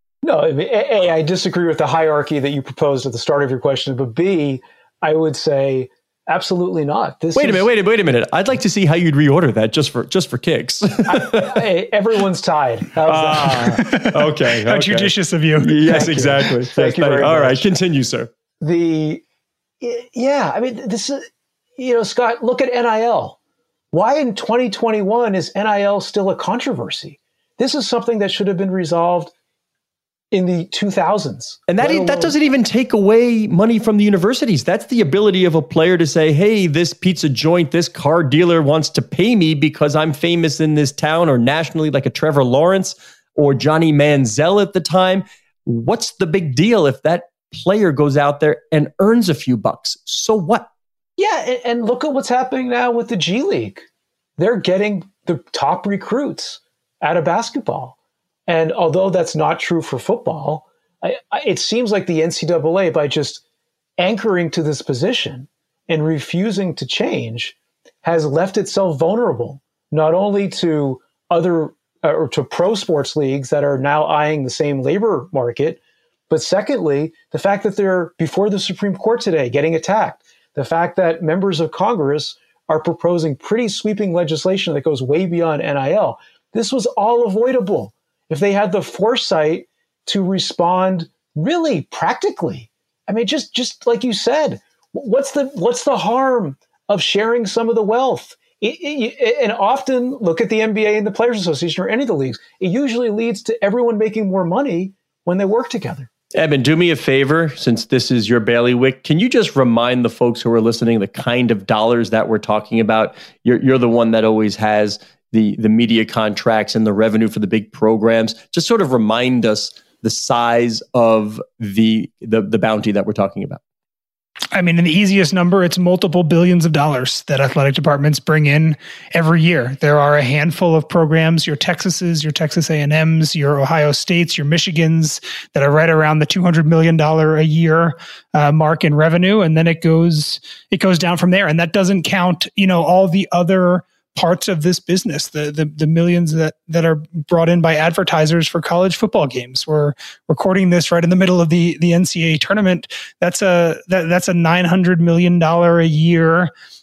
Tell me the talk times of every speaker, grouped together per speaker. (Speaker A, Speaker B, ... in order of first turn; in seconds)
Speaker A: 0.2-7.7, 11.1-13.8, 15.8-17.7, 18.6-19.2, 19.8-21.2, 21.8-23.4, 23.9-29.3, 30.3-32.3, 51.2-53.8, 54.4-58.0, 58.5-63.4, 64.0-75.8, 76.3-106.1
Speaker B: 7.3-11.6, 13.0-18.3, 31.7-50.7, 106.3-123.6
Speaker C: 13.8-16.4, 124.5-156.5